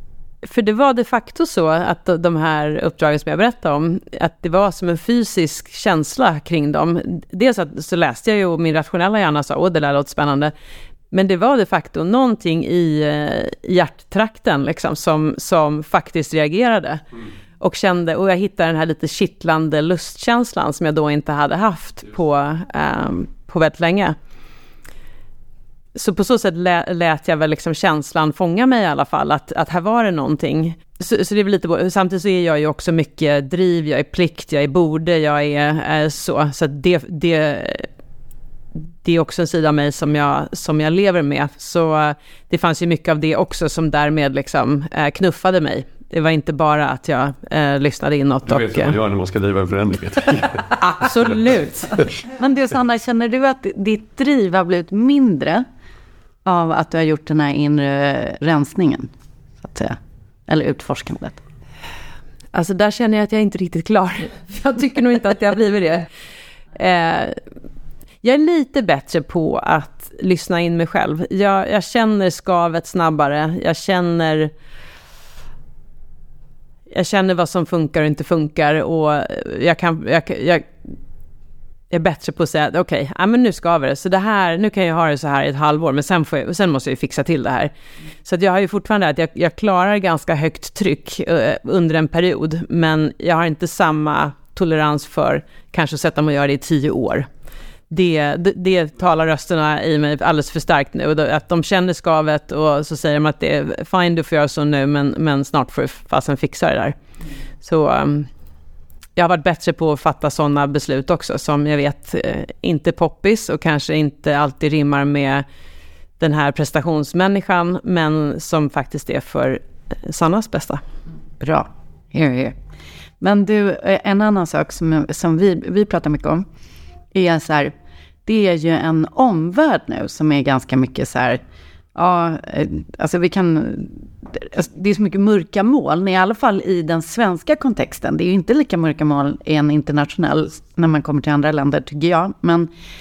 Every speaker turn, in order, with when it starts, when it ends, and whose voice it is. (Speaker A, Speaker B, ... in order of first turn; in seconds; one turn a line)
Speaker A: 0.4-10.5
Speaker A: 11.1-17.0
Speaker A: 17.6-24.1
Speaker A: 25.9-37.9
Speaker A: 39.0-48.9
Speaker B: 48.5-50.6
Speaker A: 50.7-52.0
Speaker C: 52.3-55.6
Speaker C: 56.4-59.1
Speaker C: 59.6-61.4
Speaker A: 62.5-66.1
Speaker A: 66.7-67.4
Speaker A: 68.2-74.5
Speaker A: 76.9-80.7
Speaker A: 81.9-87.7
Speaker A: 88.2-97.3
Speaker A: 97.9-107.0
Speaker A: 107.6-108.3
Speaker A: 109.2-115.4
Speaker A: 116.2-120.8
Speaker C: 121.4-122.6
Speaker C: 123.2-126.5
Speaker C: 127.1-127.7
Speaker C: 128.2-131.4
Speaker C: 131.9-142.7